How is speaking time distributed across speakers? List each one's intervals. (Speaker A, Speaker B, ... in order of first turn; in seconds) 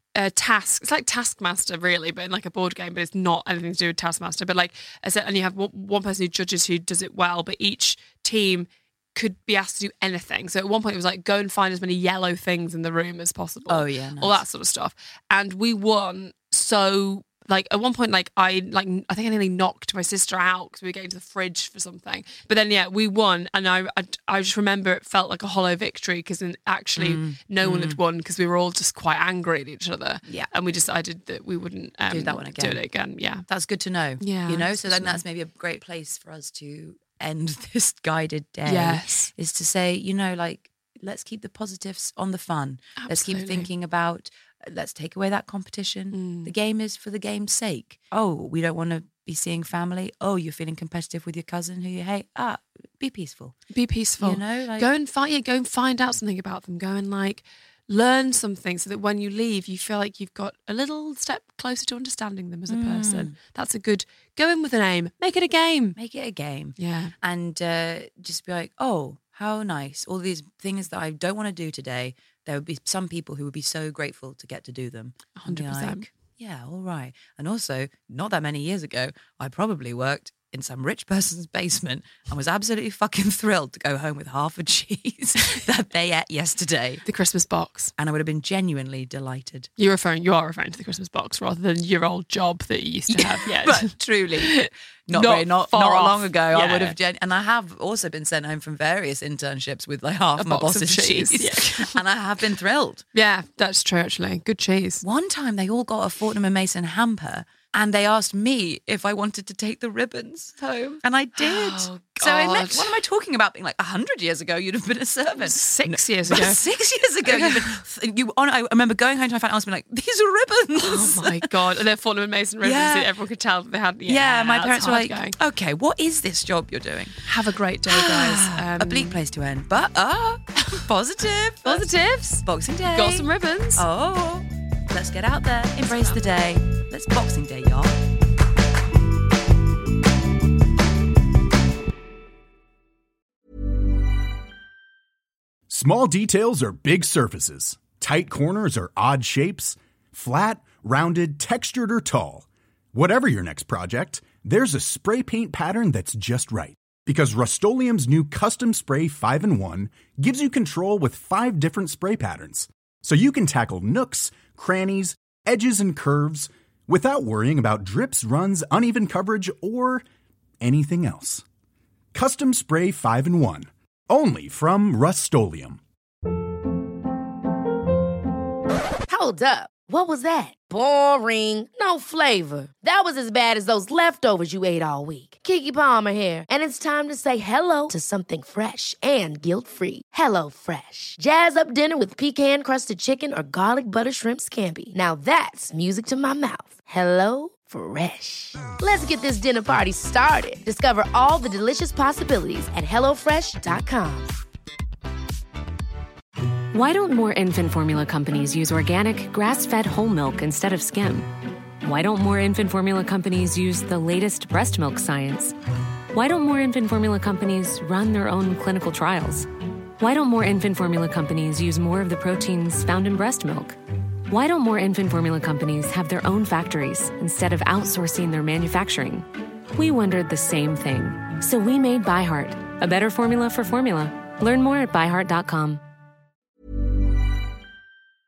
Speaker A: 0.1-33.5, 34.2-35.2, 38.7-39.3, 43.0-43.7, 46.1-46.5, 53.7-66.0, 66.8-67.1, 75.3-76.0, 87.1-87.9, 89.8-97.0, 100.4-102.0, 103.1-105.0, 111.4-113.0, 115.4-116.6, 117.2-117.8, 120.8-125.3, 127.2-129.2, 131.7-133.8, 135.9-136.2
Speaker B: 13.7-14.4, 27.0-28.0, 32.1-32.8, 33.5-53.6, 54.2-54.9, 62.7-63.3, 66.0-87.0, 88.0-89.7, 93.1-103.0, 105.0-121.5, 122.6-123.1, 124.1-127.2, 127.9-131.9, 132.4-138.0
Speaker C: 145.7-170.1, 170.6-171.4, 172.1-175.8
Speaker D: 179.1-204.4
Speaker E: 206.7-211.3, 211.8-215.6, 216.1-219.5, 220.0-223.8, 224.3-235.8